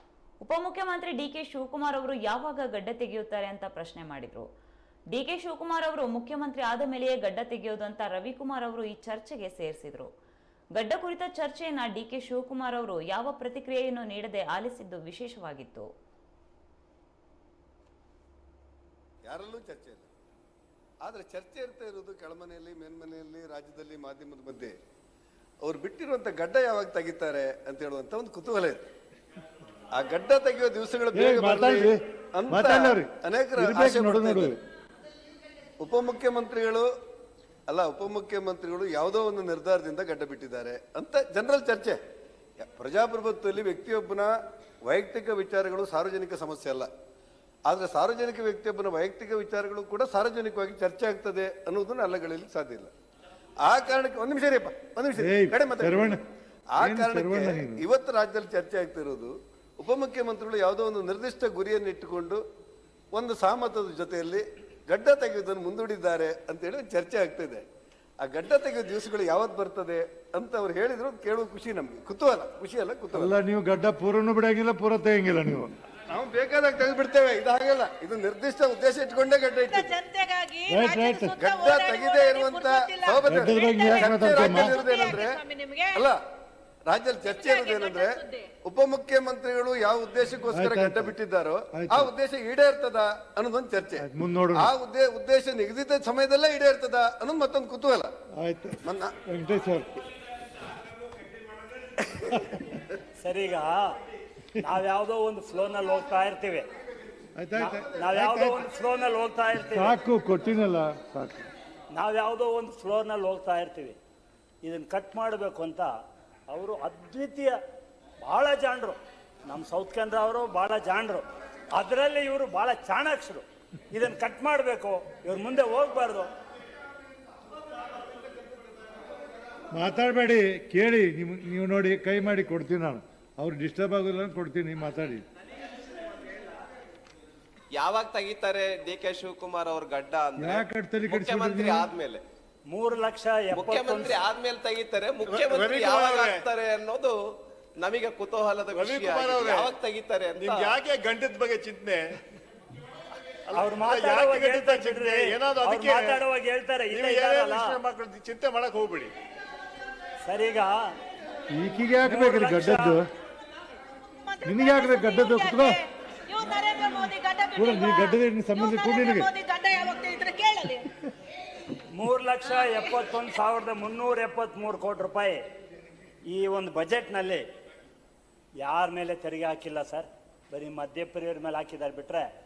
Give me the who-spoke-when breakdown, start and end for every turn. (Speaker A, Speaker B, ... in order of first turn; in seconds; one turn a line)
Speaker A: 0.4-4.5
Speaker A: 5.1-10.1
Speaker A: 10.8-15.9
Speaker B: 19.2-20.1
Speaker B: 21.0-24.8
Speaker B: 25.6-28.8
Speaker B: 29.9-34.6
Speaker C: 31.1-34.6
Speaker B: 35.8-36.9
Speaker B: 37.7-42.0
Speaker B: 42.6-44.3
Speaker B: 44.9-46.9
Speaker B: 47.7-52.9
Speaker B: 53.6-56.2
Speaker C: 55.2-56.2
Speaker B: 56.8-62.4
Speaker C: 56.8-57.8
Speaker B: 63.1-67.6
Speaker B: 68.2-73.3
Speaker C: 73.1-75.7
Speaker B: 76.1-80.0
Speaker D: 79.7-86.1
Speaker C: 80.7-81.3
Speaker B: 81.4-85.4
Speaker C: 83.2-84.8
Speaker B: 86.9-98.1
Speaker D: 87.2-88.5
Speaker C: 90.5-91.1
Speaker C: 91.7-92.1
Speaker C: 94.0-94.7
Speaker C: 98.4-100.0
Speaker B: 98.8-99.2
Speaker C: 102.3-102.6
Speaker E: 103.2-103.9
Speaker E: 104.6-106.7
Speaker C: 107.3-108.6
Speaker E: 107.5-110.0
Speaker C: 109.7-111.5
Speaker E: 111.9-114.0
Speaker E: 114.6-115.9
Speaker E: 116.5-117.5
Speaker E: 118.2-126.3
Speaker C: 129.7-135.2
Speaker F: 137.7-142.2
Speaker C: 140.4-141.9
Speaker E: 142.7-144.2
Speaker F: 143.5-147.2
Speaker G: 145.2-146.4
Speaker F: 147.8-150.9
Speaker G: 148.7-149.7
Speaker G: 150.3-152.1
Speaker G: 153.5-156.2
Speaker E: 153.5-157.8
Speaker G: 156.9-159.1
Speaker E: 160.2-160.9
Speaker C: 161.5-163.1
Speaker E: 162.0-163.0
Speaker D: 164.2-170.9
Speaker C: 164.4-165.8
Speaker C: 167.5-169.3
Speaker E: 171.9-175.4
Speaker E: 176.2-177.4
Speaker E: 178.6-182.3